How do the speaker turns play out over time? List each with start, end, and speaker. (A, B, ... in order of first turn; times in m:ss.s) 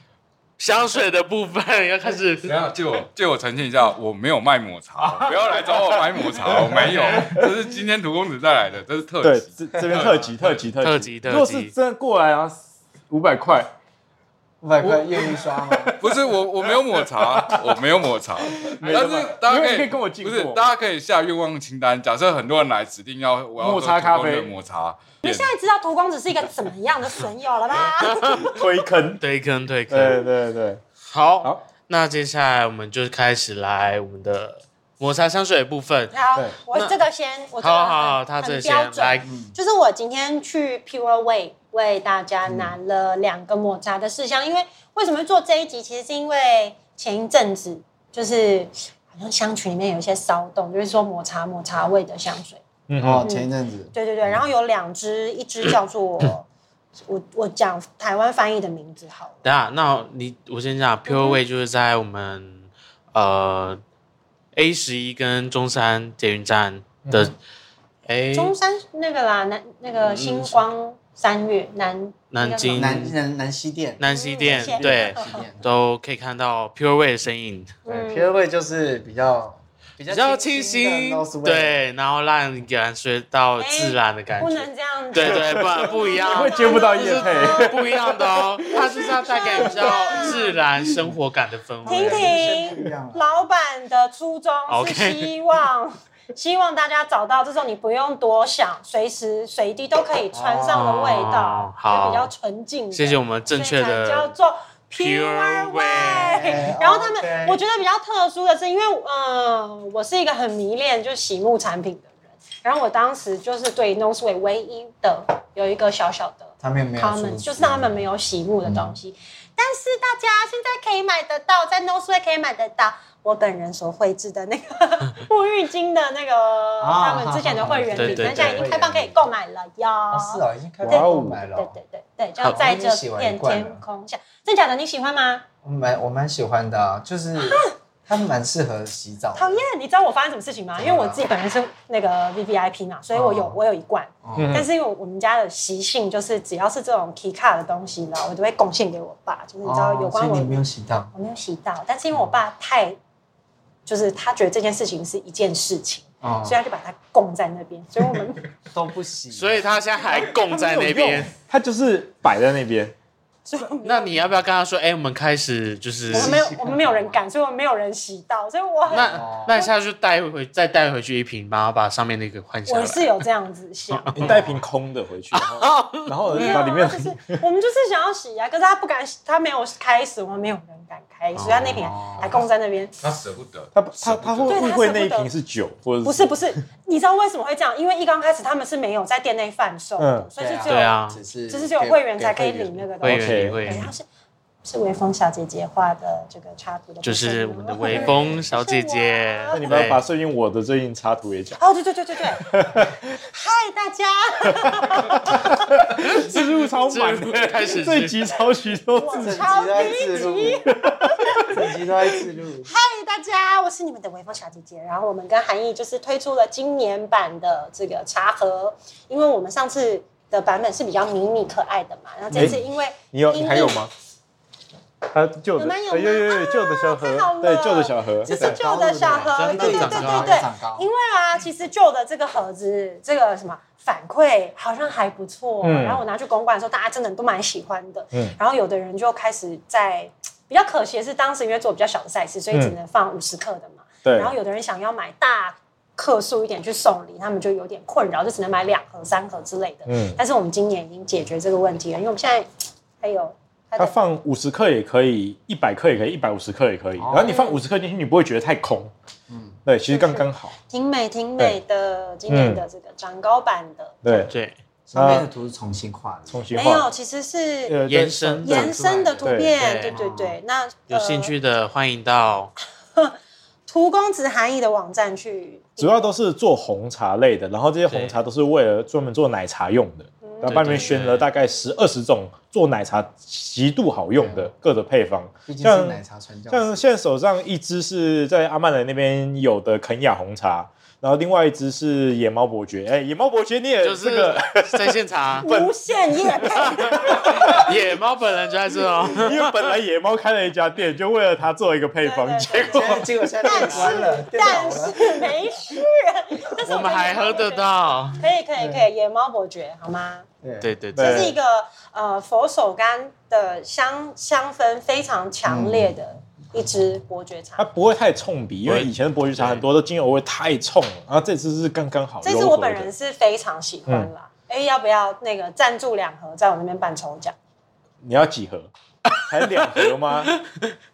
0:00.6-0:02.6 A
0:02.4-0:10.6 B
0:06.2-0:07.5 C
0:09.2-0:13.7 C
0:10.8-0:11.7 A
0:14.6-0:16.0 D
0:14.8-0:17.8 C
0:16.0-0:25.5 B
0:18.5-0:20.7 C
0:23.6-0:24.6 C
0:25.2-0:28.6 E
0:28.0-0:28.6 A
0:28.4-0:29.2 C
0:29.2-0:30.3 A
0:29.9-0:30.8 C
0:31.0-0:36.1 A
0:36.1-0:52.6 E
0:36.7-0:37.0 A
0:37.6-0:39.3 A
0:39.2-0:39.6 D
0:42.5-0:42.7 D
0:52.9-0:53.3 C
0:53.0-0:54.4 D
0:53.2-0:56.5 E
0:57.0-0:59.4 E
0:59.4-1:03.8 A
1:01.1-1:01.4 E
1:04.5-1:07.4 A
1:07.0-1:07.3 C
1:08.1-1:08.5 A
1:08.3-1:13.1 E
1:10.0-1:10.6 A
1:12.3-1:13.2 A
1:12.7-1:15.6 D
1:14.0-1:17.7 A
1:14.0-1:15.5 E
1:17.8-1:18.3 E
1:17.9-1:21.8 D
1:20.1-1:32.5 A
1:23.6-1:27.8 E
1:25.2-1:30.1 C
1:28.7-1:30.6 E
1:31.8-1:33.3 D
1:31.9-2:15.4 E
1:34.7-1:35.3 A
1:40.3-1:40.9 D
1:40.7-1:42.3 A
1:42.9-1:44.3 A
1:45.0-1:46.4 A
1:46.2-1:47.6 D
1:56.6-1:58.0 D
1:58.6-1:59.0 D
2:06.8-2:09.3 D
2:07.9-2:08.7 A
2:10.1-2:11.7 D
2:10.8-2:11.4 C
2:12.5-2:13.8 D
2:15.6-2:19.6 D
2:17.4-2:17.7 E
2:19.4-2:33.0 E
2:20.8-2:21.2 D
2:23.1-2:23.6 D
2:24.2-2:24.6 D
2:24.4-2:24.7 C
2:29.6-2:31.1 D
2:33.9-2:38.4 E
2:36.2-2:36.6 D
2:38.7-2:40.2 D
2:39.3-2:41.3 A
2:40.4-2:43.0 C
2:43.5-2:44.3 E
2:43.8-2:46.4 A
2:46.1-2:47.2 D
2:46.1-2:49.7 E
2:48.9-2:49.6 D
2:48.9-2:53.2 A
2:52.7-2:54.6 E
2:53.9-2:54.4 A
2:54.2-2:57.4 C
2:55.3-2:56.6 A
2:56.3-3:02.9 E
3:01.4-3:01.9 A
3:01.8-3:02.4 D
3:03.0-3:04.6 B
3:03.8-3:06.4 C
3:04.5-3:05.3 E
3:06.0-3:14.1 E
3:10.0-3:10.3 C
3:10.4-3:12.9 D
3:10.7-3:11.2 A
3:13.0-3:13.9 A
3:13.1-3:13.8 C
3:14.6-3:19.8 E
3:17.0-3:20.0 A
3:17.9-3:18.4 D
3:19.5-3:21.6 C
3:21.6-3:26.2 E
3:22.4-3:23.1 C
3:24.5-3:29.9 C
3:26.1-3:28.2 A
3:28.9-3:31.6 E
3:29.2-3:30.8 D
3:30.4-3:31.6 C
3:31.3-3:32.7 D
3:32.7-3:43.8 E
3:42.3-3:43.9 C
3:45.1-3:48.6 C
3:45.6-4:12.5 E
3:48.2-3:50.9 D
3:49.3-3:50.4 A
3:55.6-3:56.0 C
4:04.0-4:04.4 C
4:09.9-4:10.2 C
4:13.0-4:14.0 E
4:13.8-4:18.9 C
4:17.0-4:17.4 D
4:17.2-4:17.6 E
4:19.3-4:19.6 D
4:19.7-4:20.5 C
4:19.9-4:24.3 E
4:22.3-4:22.6 C
4:24.0-4:24.3 C
4:24.3-4:24.6 A
4:24.9-4:26.5 D
4:24.9-4:25.3 C
4:26.3-4:26.9 C
4:26.5-4:27.8 E
4:27.7-4:29.6 C
4:27.9-4:29.0 A
4:28.4-4:31.3 E
4:28.7-4:29.3 D
4:29.6-4:30.0 A
4:29.9-4:30.4 D
4:30.9-4:32.5 A
4:33.7-4:36.1 E
4:35.8-4:57.7 C
4:37.9-4:38.2 A
4:40.2-4:41.0 E
4:40.4-4:41.3 A
4:44.2-4:44.5 D
4:45.5-4:46.8 D
4:53.8-4:55.5 A
4:55.4-4:57.7 E
4:56.5-4:59.7 A
4:59.2-5:03.7 C
5:02.0-5:10.3 E
5:02.7-5:05.4 D
5:06.6-5:08.2 A
5:08.6-5:08.8 D
5:10.4-5:10.7 D
5:10.6-5:11.3 A
5:11.0-5:11.4 C
5:11.0-5:17.7 E
5:15.5-5:16.0 D
5:17.6-5:22.9 C
5:18.6-5:19.6 A
5:22.2-5:27.4 E
5:28.0-5:28.7 C
5:29.1-5:30.8 A
5:29.3-5:30.3 C